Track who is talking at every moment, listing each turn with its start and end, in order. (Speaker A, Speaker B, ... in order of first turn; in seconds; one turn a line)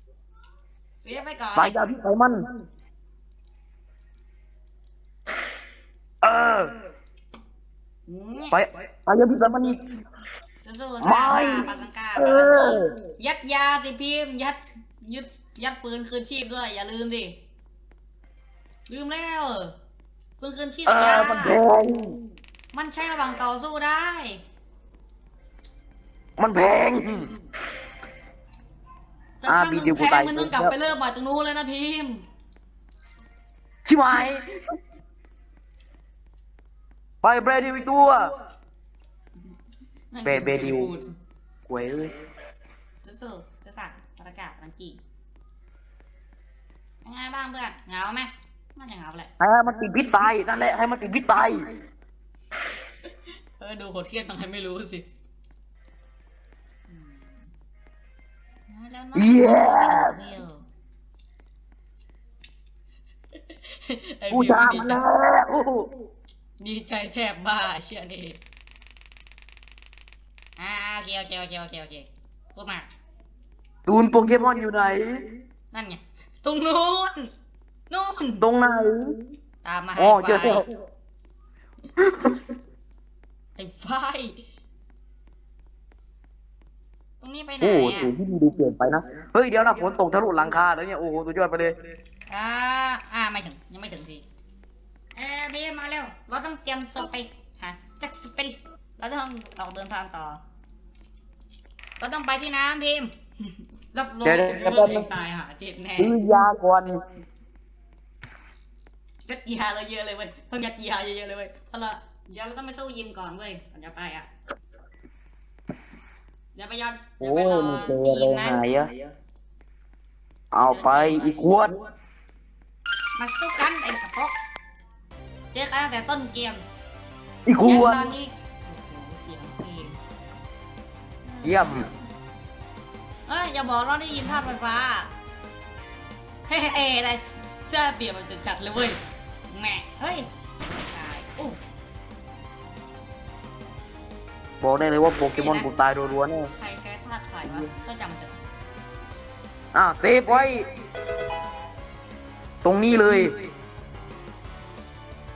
Speaker A: 0.9-1.8
Speaker B: 1.6-2.5
Speaker B: 6.2-6.7
Speaker A: 8.1-8.6
Speaker B: 8.5-9.8
Speaker A: 10.6-17.4
Speaker B: 11.0-12.9
Speaker A: 18.9-19.7
Speaker A: 20.4-21.6
Speaker B: 20.9-22.1
Speaker A: 22.7-24.4
Speaker B: 26.4-27.3
Speaker A: 29.4-32.2
Speaker B: 29.4-30.7
Speaker B: 33.8-34.5
Speaker B: 37.2-38.3
Speaker A: 40.1-41.1
Speaker B: 40.2-40.9
Speaker B: 41.7-42.1
Speaker A: 43.0-45.0
Speaker A: 47.0-49.3
Speaker B: 49.4-51.7
Speaker A: 53.6-55.0
Speaker A: 56.9-57.5
Speaker A: 58.7-60.6
Speaker B: 59.1-60.1
Speaker A: 63.5-65.0
Speaker B: 64.3-65.9
Speaker A: 66.6-68.4
Speaker A: 70.6-72.9
Speaker B: 73.8-75.3
Speaker A: 75.7-77.3
Speaker A: 77.9-78.4
Speaker B: 78.4-79.2
Speaker A: 79.6-80.7
Speaker B: 80.0-80.7
Speaker B: 82.0-82.4
Speaker A: 83.6-84.4
Speaker A: 87.2-88.1
Speaker B: 87.6-91.7
Speaker A: 92.3-94.2
Speaker A: 95.2-100.4
Speaker A: 102.0-106.1
Speaker B: 104.2-105.1
Speaker B: 106.0-107.0
Speaker A: 109.2-114.3
Speaker A: 116.5-118.6
Speaker B: 117.2-118.9
Speaker B: 120.5-121.7
Speaker A: 120.7-121.3
Speaker A: 123.2-124.3
Speaker A: 125.5-126.6
Speaker B: 127.5-128.1
Speaker A: 127.6-130.0
Speaker A: 131.2-131.9
Speaker B: 131.4-131.9
Speaker A: 133.3-135.1
Speaker A: 136.5-139.0
Speaker A: 139.5-140.3
Speaker A: 140.9-141.6
Speaker B: 144.6-146.5
Speaker A: 145.3-145.7
Speaker A: 146.5-148.3
Speaker B: 149.7-150.7
Speaker B: 152.6-153.4